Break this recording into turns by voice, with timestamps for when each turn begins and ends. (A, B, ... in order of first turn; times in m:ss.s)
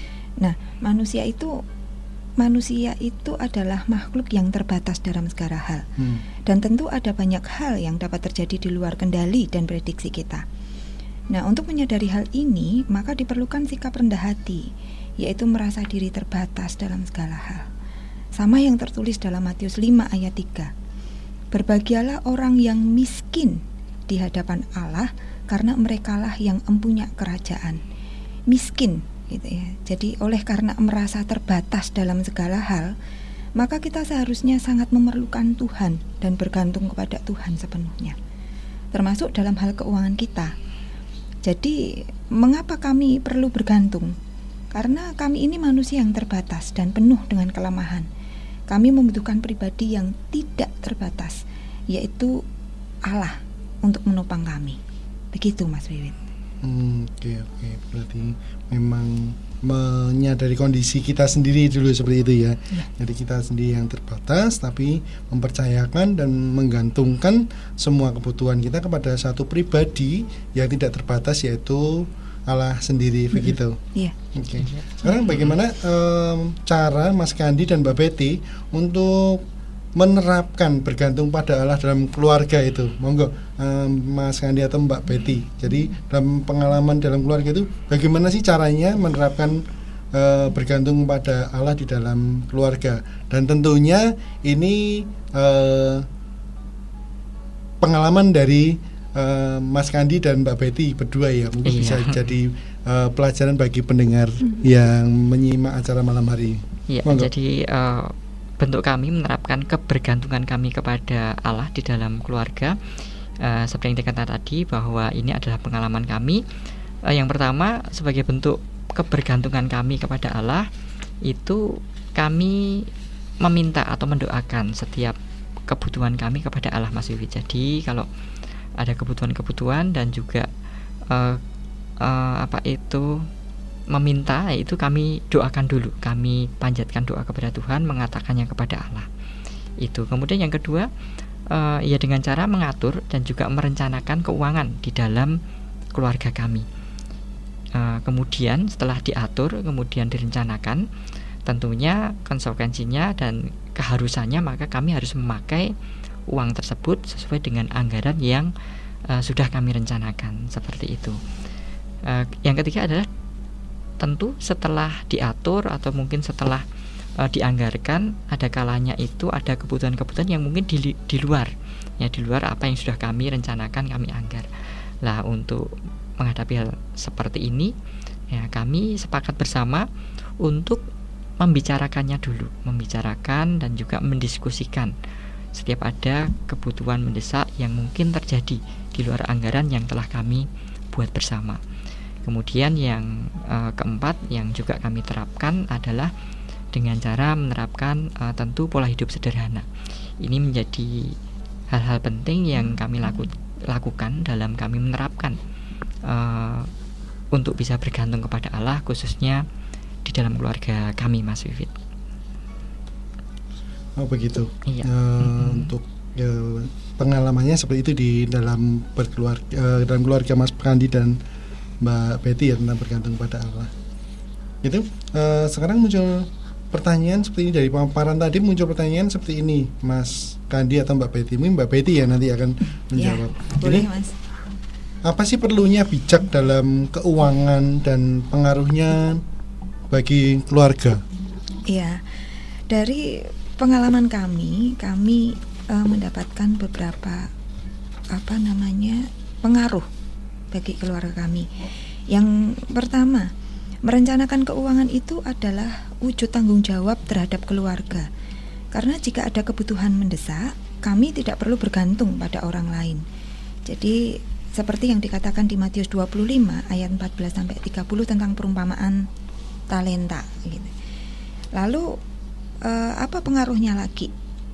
0:00.4-0:01.6 A
0:02.4-0:05.9 A
0:06.0-0:06.2 B
0:06.5-0:10.4 A
0:11.3-0:17.7 A
0:18.4-0:20.7 A
0:21.5-0:27.8 A
0:28.5-0:32.9 A
0:33.6-0:38.2 A
0:38.9-0:40.6 A
0:41.4-0:44.2 A
0:44.7-0:48.1 A
0:48.7-0:52.4 A
0:53.1-0:54.8 A
0:55.3-0:56.2 A
0:56.6-1:13.8 B
1:14.3-1:19.4 B
1:14.6-1:15.5 C
1:20.0-1:36.1 B
1:37.8-1:47.3 B
1:41.7-1:42.3 C
1:46.9-1:52.8 C
1:53.4-1:56.4 C
1:57.1-2:00.7 C
2:01.2-2:02.9 C
2:03.4-2:05.2 C
2:05.7-2:08.1 C
2:08.8-2:10.5 C
2:11.1-2:11.4 C
2:12.0-2:13.2 C
2:13.9-2:19.1 C
2:19.8-2:20.9 C
2:21.5-2:25.4 C
2:26.0-2:26.6 C
2:27.8-2:30.8 C
2:31.4-2:35.7 C
2:36.3-2:38.5 C
2:39.1-2:41.2 C
2:42.0-2:43.1 C
2:44.0-2:46.6 C
2:47.2-2:54.5 C
2:55.0-2:57.7 C
2:58.3-2:59.8 C
3:00.4-3:00.8 C
3:01.4-3:04.9 C
3:05.6-3:11.6 C
3:12.2-3:16.1 C
3:16.7-3:19.7 C
3:20.2-3:21.2 C
3:21.7-3:25.4 C
3:26.0-3:26.7 C
3:27.3-3:29.4 C
3:30.0-3:31.8 C
3:34.0-3:41.2 B
3:34.7-3:35.7 C
3:41.8-3:43.7 B
3:44.6-3:53.9 B
3:53.0-3:54.2 A
3:55.0-3:59.2 B
3:59.9-4:01.0 B
4:01.7-4:02.0 A
4:02.7-4:07.3 A
4:08.1-4:09.9 A
4:10.5-4:11.5 A
4:12.1-4:13.3 A
4:13.9-4:18.1 A
4:18.7-4:23.0 A
4:23.7-4:29.1 A
4:29.7-4:30.7 A
4:31.6-4:32.0 A
4:32.6-4:34.1 A